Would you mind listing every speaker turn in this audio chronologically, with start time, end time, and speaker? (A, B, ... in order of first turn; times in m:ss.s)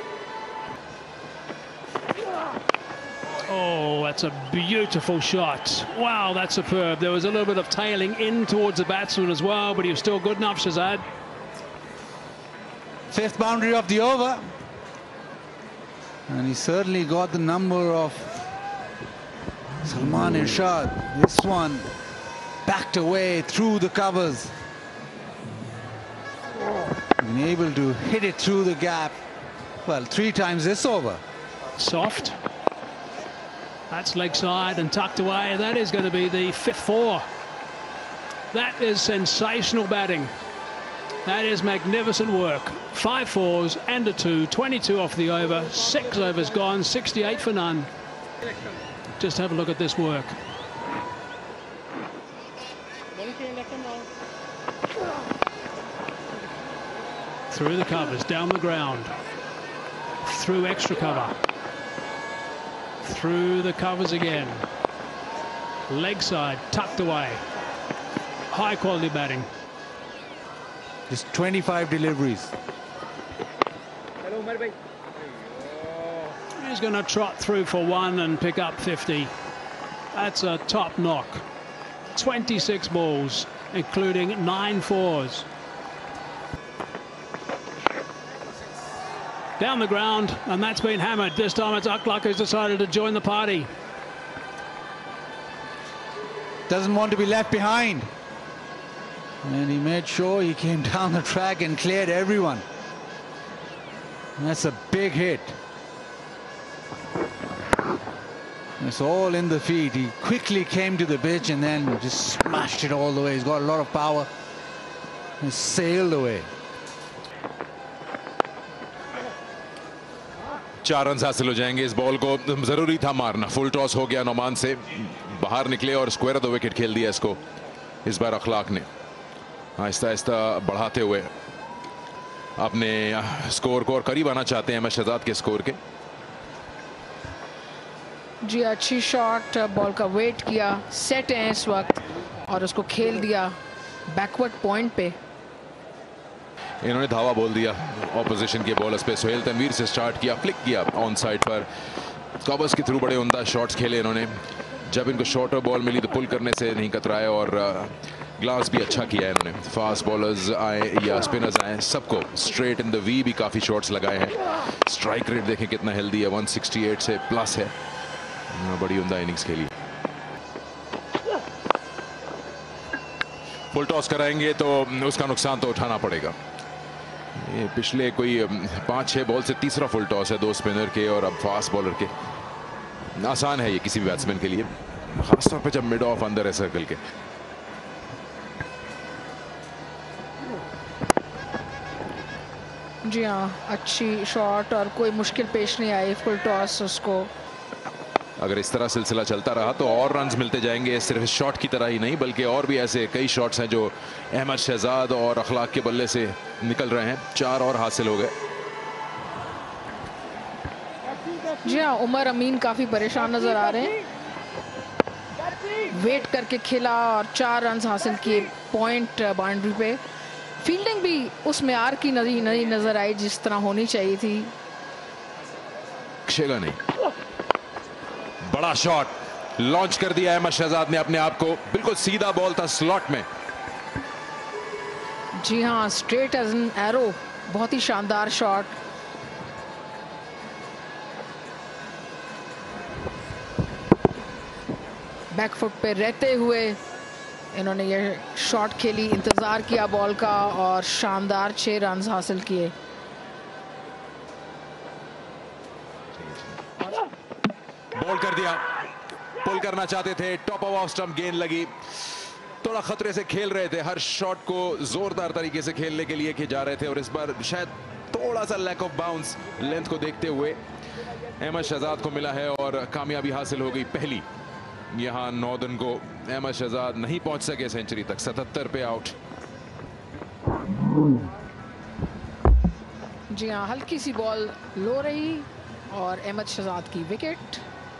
0:03.4-0:11.0 A
0:13.1-0:14.4 B
0:16.3-0:18.4 B
0:19.8-0:21.9 B
0:22.6-0:24.5 B
0:27.2-0:29.2 B
0:29.8-0:31.2 B
0:31.8-0:32.4 A
0:33.9-0:37.2 A
0:38.5-0:40.3 A
0:41.2-0:47.9 A
0:49.2-0:50.4 A
0:57.5-0:59.1 A
1:00.2-1:01.3 A
1:03.0-1:04.6 A
1:05.9-1:07.4 A
1:08.5-1:09.5 A
1:11.1-1:12.5 B
1:16.6-1:19.3 A
1:20.1-1:21.4 A
1:22.1-1:25.4 A
1:29.6-1:33.7 A
1:36.7-1:38.1 B
1:39.4-1:42.6 B
1:44.4-1:45.6 B
1:48.8-1:54.3 B
1:55.4-1:56.5 B
2:00.8-2:07.4 C
2:08.0-2:08.9 C
2:09.8-2:11.3 C
2:12.6-2:15.8 C
2:18.4-2:23.5 D
2:24.1-2:25.2 D
2:26.8-2:31.6 C
2:32.4-2:47.7 C
2:48.5-2:49.7 C
2:53.7-2:56.4 C
2:57.4-3:02.1 C
3:03.2-3:07.0 C
3:13.0-3:17.3 D
3:18.4-3:28.3 C
3:31.6-3:34.0 D
3:35.9-3:40.0 D
3:40.6-3:44.5 D
3:46.3-3:46.8 C
3:48.4-3:53.2 C
3:55.4-3:58.7 D
4:05.3-4:06.8 D
4:07.5-4:12.7 D
4:16.1-4:16.6 C
4:17.9-4:18.6 C
4:19.4-4:21.7 C
4:22.6-4:30.6 C
4:31.4-4:34.2 C
4:34.9-4:39.1 C
4:43.3-4:47.6 D